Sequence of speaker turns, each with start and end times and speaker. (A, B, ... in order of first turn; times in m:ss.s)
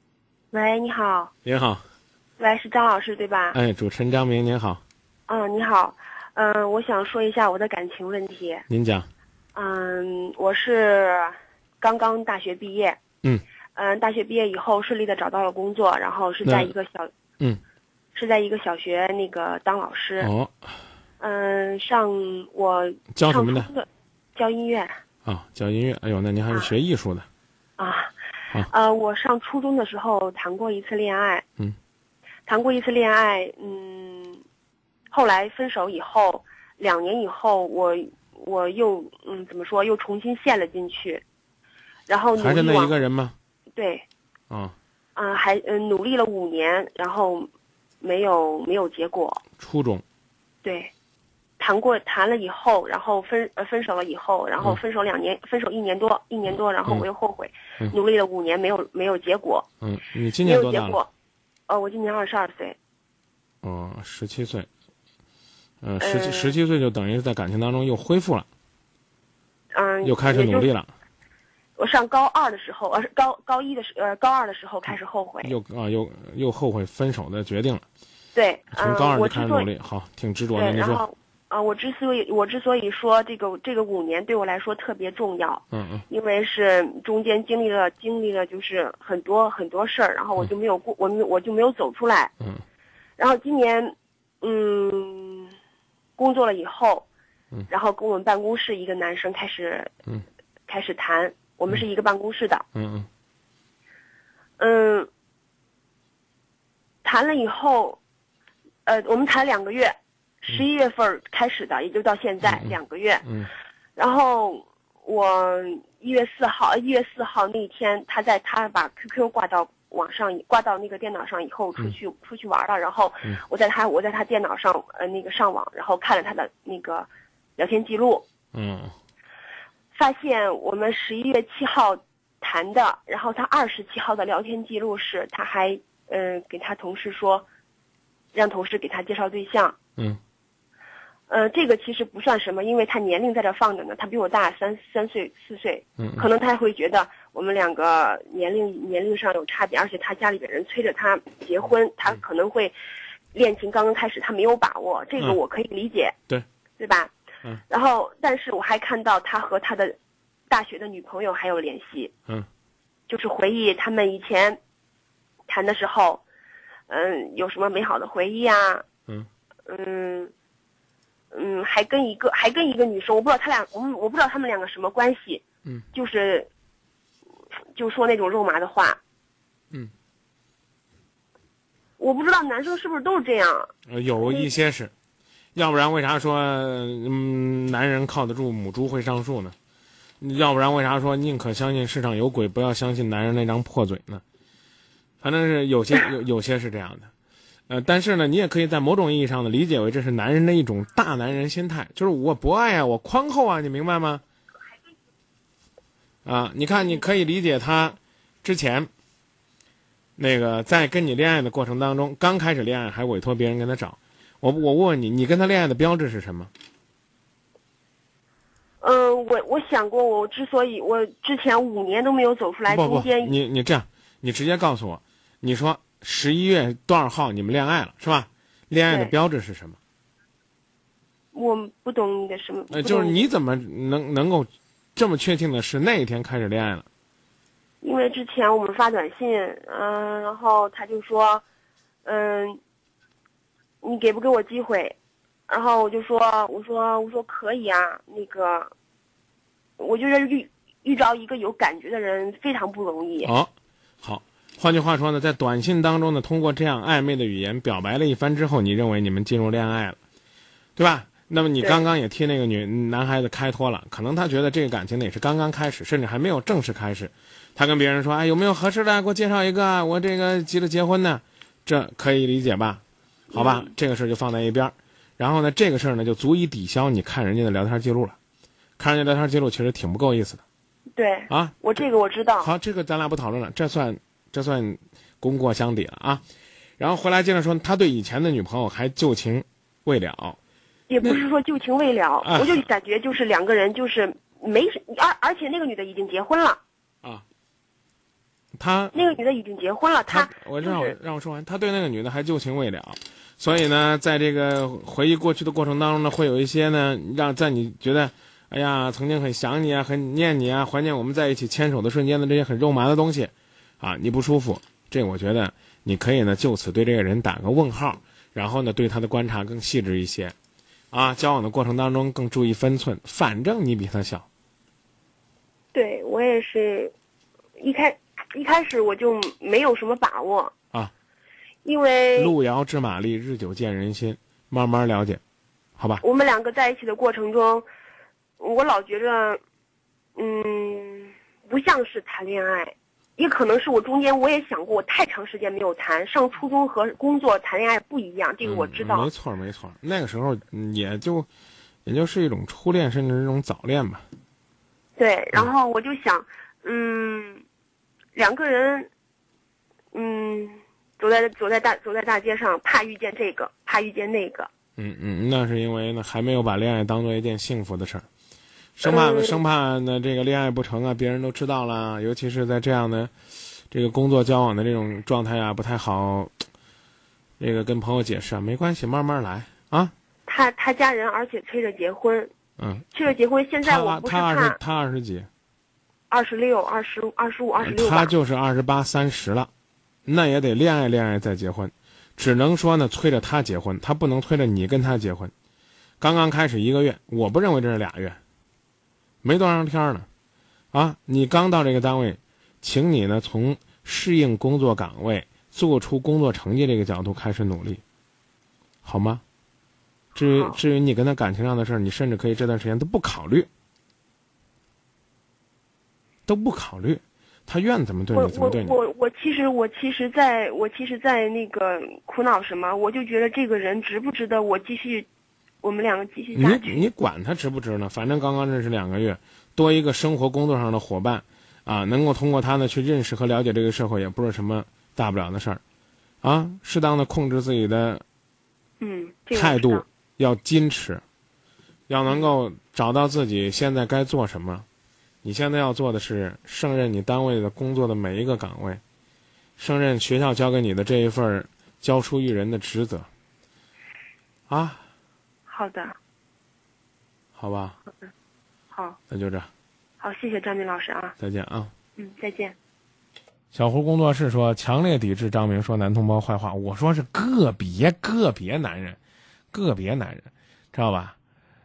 0:00.5-0:01.3 A
0:01.4-0:01.8 B
0:02.4-0:03.6 A
0:03.5-0:04.8 B
0:05.3-0:08.6 A
0:08.7-0:09.1 B
0:09.5-0:13.0 A
0:13.8-0:17.1 A
0:16.4-0:16.7 B
0:18.1-0:20.3 A
0:20.2-0:20.5 B
0:21.2-0:24.9 A
0:23.1-0:23.7 B
0:25.2-0:27.2 B
0:27.8-0:28.1 A
0:28.7-0:31.4 A
0:32.5-0:34.4 A
0:35.1-0:41.2 A
0:42.1-0:43.0 A
0:42.4-0:43.3 B
0:43.8-0:44.0 A
0:45.2-0:47.5 A
0:48.0-0:49.4 A
0:49.6-0:50.0 B
0:50.6-0:50.9 A
0:51.6-0:59.6 A
0:59.8-1:01.0 B
1:00.4-1:01.1 A
1:01.7-1:02.8 A
1:03.6-1:04.7 B
1:05.8-1:08.5 B
1:06.0-1:06.5 A
1:09.7-1:10.7 A
1:10.0-1:10.9 B
1:11.8-1:15.5 A
1:15.4-1:17.8 B
1:18.3-1:19.7 A
1:18.7-1:21.0 B
1:20.6-1:32.3 A
1:25.7-1:26.0 B
1:33.2-1:35.5 A
1:36.2-1:37.0 A
1:37.7-1:39.9 A
1:40.7-1:42.6 A
1:42.7-1:43.1 B
1:44.6-1:45.1 A
1:47.0-1:48.0 A
1:48.8-1:53.2 A
1:52.4-1:52.7 B
1:53.2-1:53.5 B
1:54.0-2:08.2 A
2:08.5-2:08.9 B
2:09.9-2:17.4 A
2:18.3-2:19.8 A
2:21.3-2:32.7 A
2:26.0-2:26.2 B
2:33.3-2:36.2 A
2:36.8-2:37.1 A
2:37.7-2:39.9 A
2:40.5-2:42.1 A
2:43.1-2:44.6 A
2:45.5-2:46.2 A
2:46.9-2:48.8 A
2:49.7-2:50.3 A
2:51.3-2:56.5 A
2:57.7-2:59.0 A
3:02.0-3:04.5 A
3:03.9-3:04.9 B
3:05.5-3:09.5 B
3:10.2-3:14.2 B
3:15.2-3:17.1 B
3:17.7-3:24.2 B
3:26.2-3:28.9 B
3:30.2-3:36.5 B
3:38.8-3:43.4 A
3:42.7-3:49.8 B
3:48.9-3:49.1 A
3:51.3-3:53.2 A
3:52.7-3:56.9 B
3:57.8-4:01.4 A
4:02.0-4:02.6 A
4:03.8-4:05.0 A
4:05.5-4:08.7 A
4:09.8-4:13.3 A
4:13.2-4:13.5 B
4:14.0-4:20.0 B
4:20.8-4:32.8 B
4:21.6-4:21.8 A
4:33.3-4:33.7 A
4:33.3-4:38.2 B
4:38.8-4:40.4 B
4:41.0-4:42.5 A
4:41.3-4:41.6 B
4:42.4-4:46.2 B
4:46.8-4:50.4 B
4:50.9-4:56.6 A
4:52.2-4:52.6 B
4:58.6-4:59.0 B
4:58.9-5:00.9 A
5:00.1-5:20.3 B
5:20.9-5:24.2 B
5:25.7-5:26.9 A
5:27.6-5:30.5 A
5:31.6-5:32.3 A
5:32.2-5:35.2 B
5:35.8-5:36.0 B
5:36.0-5:37.6 A
5:38.4-5:39.4 A
5:40.2-5:49.1 A
5:48.4-5:51.3 B
5:51.8-5:54.0 B
5:55.0-5:57.4 A
5:58.1-5:58.9 A
5:59.9-6:04.5 A
6:04.8-6:08.0 B
6:08.8-6:13.1 B
6:08.8-6:09.4 A
6:13.7-6:16.3 B
6:17.4-6:19.9 B
6:20.3-6:22.3 A
6:22.6-6:22.9 B
6:22.9-6:24.6 A
6:23.6-6:25.3 B
6:26.1-6:28.1 A
6:27.6-6:29.5 B
6:30.0-6:35.3 B
6:36.0-6:38.2 B
6:39.2-6:40.1 B
6:40.7-6:47.8 B
6:48.8-6:49.2 B
6:50.1-6:53.5 B
6:50.2-6:50.6 A
6:56.3-6:58.7 B
6:58.1-7:05.1 A
7:05.6-7:06.8 A
7:06.3-7:15.6 B
7:16.2-7:18.0 B
7:18.8-7:19.8 A
7:19.3-7:21.0 B
7:21.9-7:24.6 B
7:25.2-7:28.8 B
7:29.6-7:33.1 B
7:34.5-7:34.8 B
7:35.5-7:36.0 A
7:37.4-7:37.8 B
7:38.7-7:39.0 A
7:39.1-7:39.5 B
7:40.0-7:41.2 A
7:41.2-7:41.7 B
7:42.0-7:42.5 A
7:43.5-7:49.0 B
7:49.5-7:51.2 B